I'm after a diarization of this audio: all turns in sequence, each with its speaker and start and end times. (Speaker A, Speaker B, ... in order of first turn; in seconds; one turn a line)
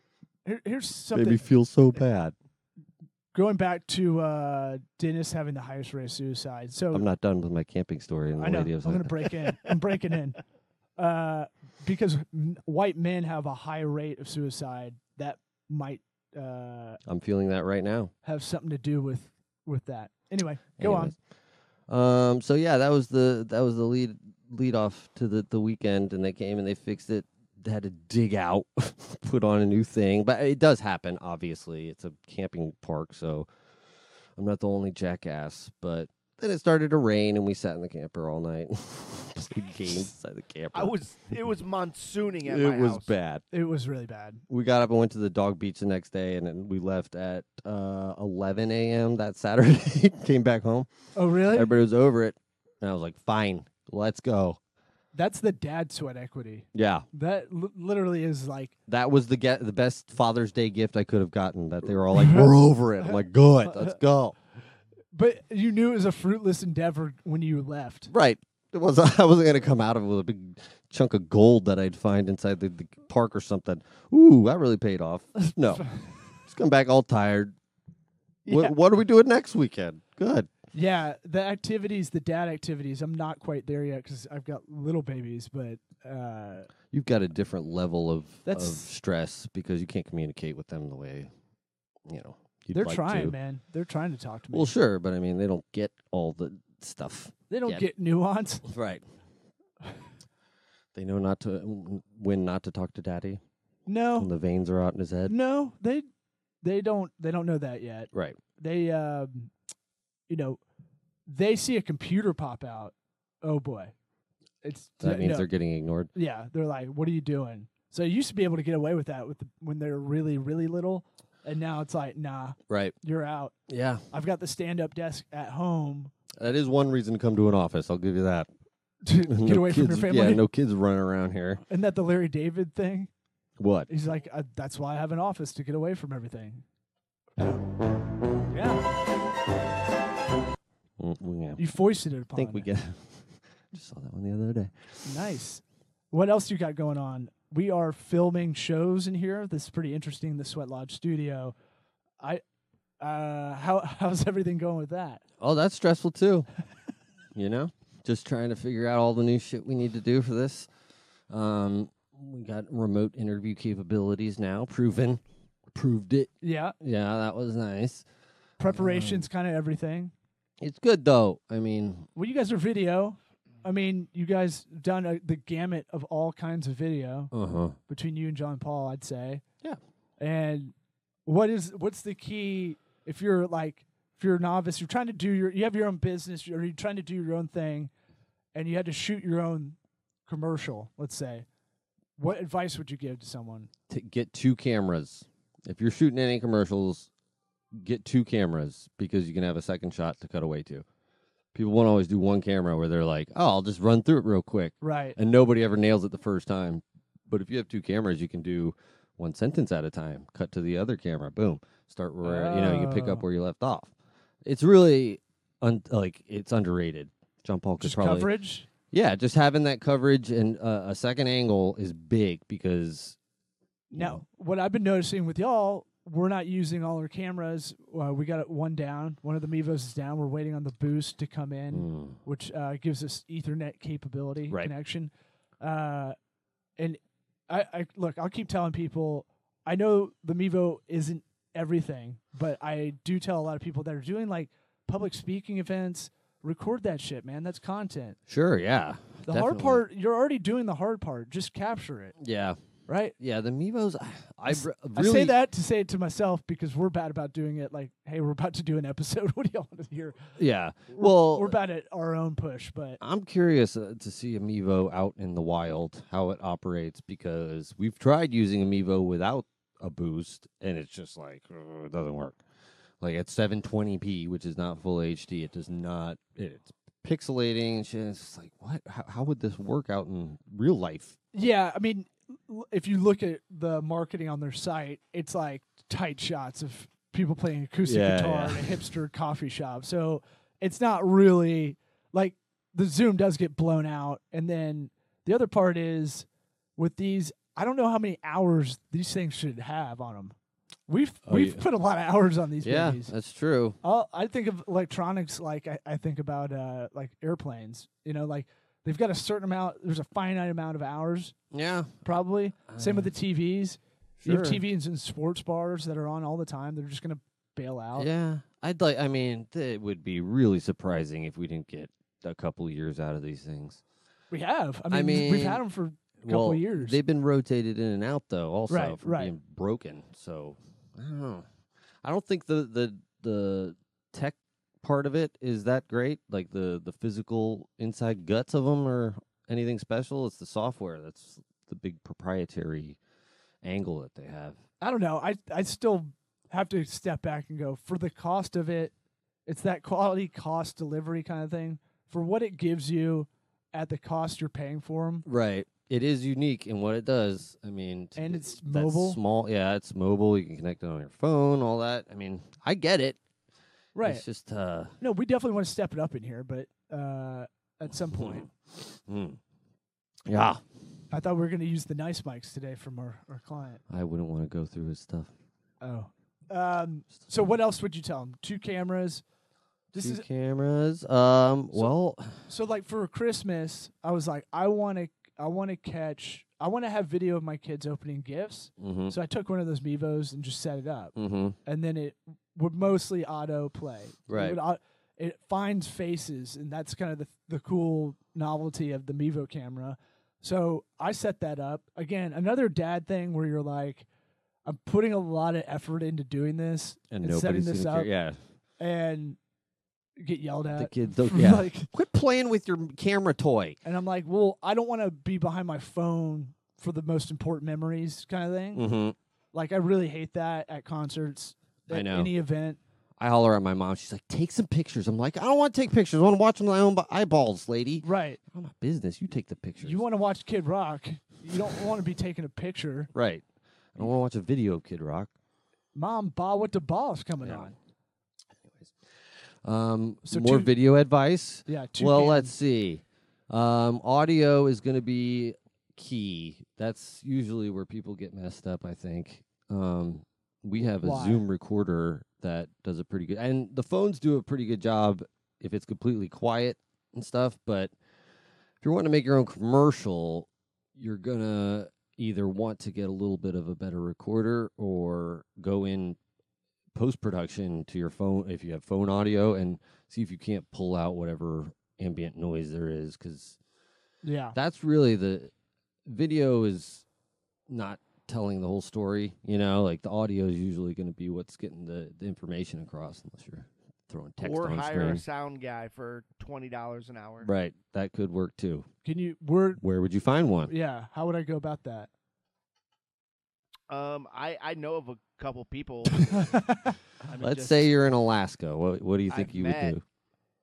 Speaker A: 0.4-1.4
Speaker B: 1.1-2.3
Speaker A: 3.3-7.0
Speaker B: 6.9-9.3
Speaker A: 8.3-10.4
Speaker A: 11.0-17.0
Speaker B: 17.1-18.1
Speaker A: 18.2-21.1
Speaker B: 20.8-21.1
Speaker B: 21.9-33.5
Speaker B: 34.4-40.9
Speaker C: 40.7-43.1
Speaker B: 42.4-43.4
Speaker A: 43.5-44.4
Speaker B: 44.5-50.9
Speaker A: 51.1-51.7
Speaker B: 51.5-54.6
Speaker A: 55.1-58.7
Speaker B: 56.7-57.1
Speaker B: 58.9-64.3
Speaker A: 62.1-62.5
Speaker A: 63.1-64.0
Speaker A: 65.1-68.1
Speaker B: 68.1-75.9
Speaker A: 75.5-76.0
Speaker B: 76.5-77.5
Speaker A: 78.5-78.7
Speaker B: 78.5-80.5
Speaker A: 80.7-86.7
Speaker B: 86.9-91.3
Speaker A: 88.5-88.9
Speaker B: 92.0-93.3
Speaker A: 92.7-94.7
Speaker B: 94.5-97.8
Speaker A: 97.5-98.7
Speaker B: 98.6-99.0
Speaker B: 100.9-103.4
Speaker A: 103.8-104.3
Speaker B: 104.2-105.3
Speaker A: 105.2-106.0
Speaker A: 106.6-109.5
Speaker B: 108.1-108.4
Speaker A: 110.3-110.6
Speaker A: 111.3-113.9
Speaker A: 114.6-115.5
Speaker B: 115.0-116.1
Speaker A: 116.1-123.5
Speaker B: 122.7-122.9
Speaker B: 123.7-124.0
Speaker A: 124.1-126.1
Speaker B: 126.4-128.5
Speaker A: 129.0-130.4
Speaker B: 129.3-131.6
Speaker A: 131.7-133.1
Speaker B: 133.6-133.9
Speaker A: 133.9-136.6
Speaker A: 137.4-137.6
Speaker A: 138.5-138.8
Speaker B: 141.0-141.6
Speaker A: 141.6-142.7
Speaker B: 142.3-145.1
Speaker A: 145.0-151.5
Speaker A: 153.0-155.2
Speaker B: 155.4-156.5
Speaker B: 157.3-160.7
Speaker B: 161.3-165.2
Speaker B: 165.7-168.0
Speaker A: 166.4-166.8
Speaker A: 168.6-170.1
Speaker B: 168.7-169.3
Speaker B: 170.6-172.1
Speaker A: 172.2-177.3
Speaker B: 177.3-177.8
Speaker A: 177.9-179.4
Speaker A: 180.2-180.7
Speaker A: 181.2-187.9
Speaker A: 188.5-191.5
Speaker A: 192.2-193.7
Speaker B: 193.9-197.1
Speaker B: 197.7-200.8
Speaker B: 201.5-213.9
Speaker A: 204.8-205.2
Speaker A: 212.2-213.2
Speaker B: 214.4-218.3
Speaker A: 217.8-218.7
Speaker B: 218.9-223.2
Speaker A: 223.9-236.2
Speaker B: 223.9-224.2
Speaker B: 231.7-232.2
Speaker A: 236.8-248.2
Speaker B: 248.3-249.8
Speaker A: 249.2-252.2
Speaker B: 252.2-252.6
Speaker A: 252.9-253.2
Speaker B: 253.2-255.4
Speaker A: 254.5-260.2
Speaker B: 260.4-261.6
Speaker A: 260.9-263.0
Speaker B: 263.0-272.4
Speaker B: 273.0-281.1
Speaker A: 281.3-300.3
Speaker B: 287.8-288.8
Speaker A: 300.9-303.1
Speaker B: 301.2-301.6
Speaker B: 302.6-303.8
Speaker A: 303.8-311.4
Speaker B: 311.5-311.9
Speaker A: 312.0-318.1
Speaker B: 312.7-313.1
Speaker B: 314.2-314.6
Speaker B: 317.9-323.8
Speaker A: 324.3-327.0
Speaker B: 324.9-325.6
Speaker B: 326.2-331.4
Speaker A: 328.7-329.3
Speaker B: 332.0-343.0
Speaker B: 343.6-344.6
Speaker A: 344.8-348.9
Speaker A: 349.4-355.2
Speaker B: 355.2-363.2
Speaker A: 358.1-359.2
Speaker A: 363.9-364.2
Speaker B: 364.0-364.9
Speaker A: 365.0-368.5
Speaker B: 368.1-369.4
Speaker B: 370.3-370.6
Speaker A: 371.1-373.8
Speaker B: 373.9-375.3
Speaker A: 375.8-379.2
Speaker B: 379.9-382.4
Speaker A: 379.9-380.2
Speaker A: 382.5-391.1
Speaker B: 388.8-389.1
Speaker B: 391.1-391.6
Speaker A: 391.6-404.1
Speaker B: 394.3-394.6
Speaker A: 404.6-408.1
Speaker B: 407.1-408.4
Speaker A: 408.8-409.4
Speaker A: 410.2-411.9
Speaker B: 410.7-413.8
Speaker A: 413.8-418.8
Speaker B: 418.7-419.1
Speaker A: 419.5-422.8
Speaker B: 421.9-422.3
Speaker B: 423.2-430.0
Speaker A: 428.0-428.4
Speaker A: 429.8-433.1
Speaker B: 433.1-435.3
Speaker A: 435.9-437.8
Speaker B: 437.4-437.7
Speaker B: 439.6-457.9
Speaker A: 440.2-440.7
Speaker A: 441.7-442.5
Speaker A: 450.9-451.4
Speaker B: 458.8-466.2
Speaker B: 466.9-473.6
Speaker A: 474.2-474.6
Speaker B: 474.5-475.5
Speaker B: 476.1-477.0
Speaker B: 477.7-485.2
Speaker C: 484.4-487.5
Speaker B: 487.4-488.9
Speaker A: 489.0-489.8
Speaker B: 489.8-490.7
Speaker A: 490.7-492.1
Speaker C: 493.9-496.6
Speaker A: 496.1-497.0
Speaker C: 497.3-497.8
Speaker B: 497.4-500.0
Speaker C: 499.3-499.9